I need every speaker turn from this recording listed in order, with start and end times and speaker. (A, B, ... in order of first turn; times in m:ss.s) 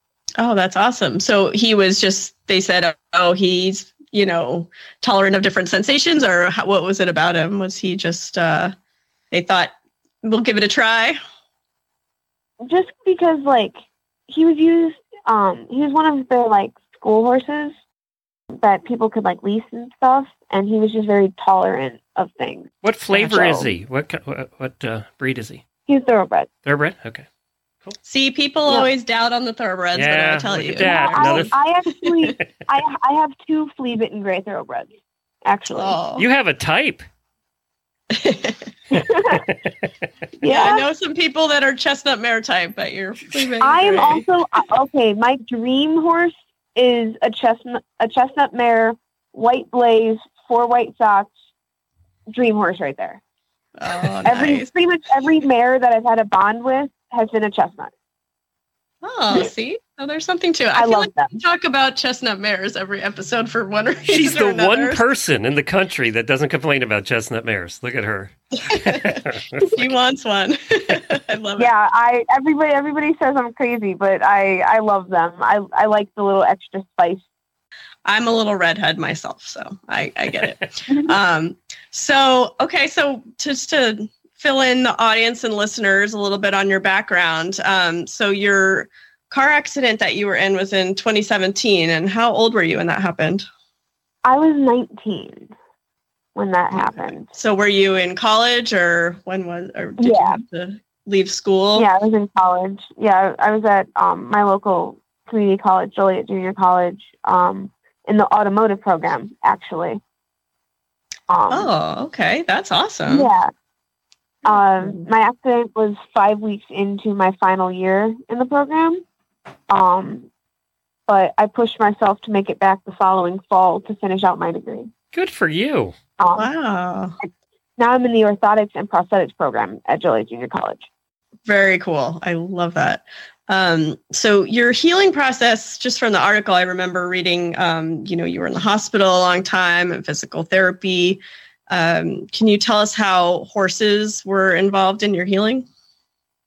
0:00.4-0:08.7 A
0:09.3-0:11.2 A
0:12.6-0:13.8 B
0:14.3-0:17.8 B
0:18.5-0:23.7 B
0:22.8-0:25.6 C
0:25.9-0:26.5 B
0:26.6-0:27.2 C
0:28.0-0:32.4 A
0:29.9-0:31.5 C
0:30.9-0:34.9 B
0:35.4-0:36.0 B
0:35.7-0:36.2 A
0:36.2-0:37.0 C
0:38.1-0:38.6 A
0:38.9-0:39.4 B
0:40.4-0:40.8 B
0:40.5-0:44.3 A
0:43.6-0:51.3 B
0:52.3-0:53.2 B
0:53.8-0:54.7 A
0:54.2-0:57.9 B
0:59.0-1:05.0 A
1:00.8-1:01.4 B
1:04.1-1:09.9 C
1:08.6-1:11.7 A
1:11.6-1:17.2 B
1:18.0-1:33.5 A
1:20.9-1:21.1 B
1:34.2-1:35.5 B
1:36.4-1:37.3 B
1:36.7-1:41.9 A
1:40.0-1:40.4 B
1:41.8-1:50.0 B
1:51.3-1:51.7 B
1:51.5-1:53.3 A
1:53.1-1:53.5 B
1:54.4-1:59.0 B
1:54.8-1:55.0 A
1:59.7-2:00.3 B
2:01.1-2:04.9 B
2:05.1-2:06.0 C
2:06.2-2:06.5 B
2:06.4-2:07.2 A
2:07.8-2:10.8 B
2:11.5-2:25.7 A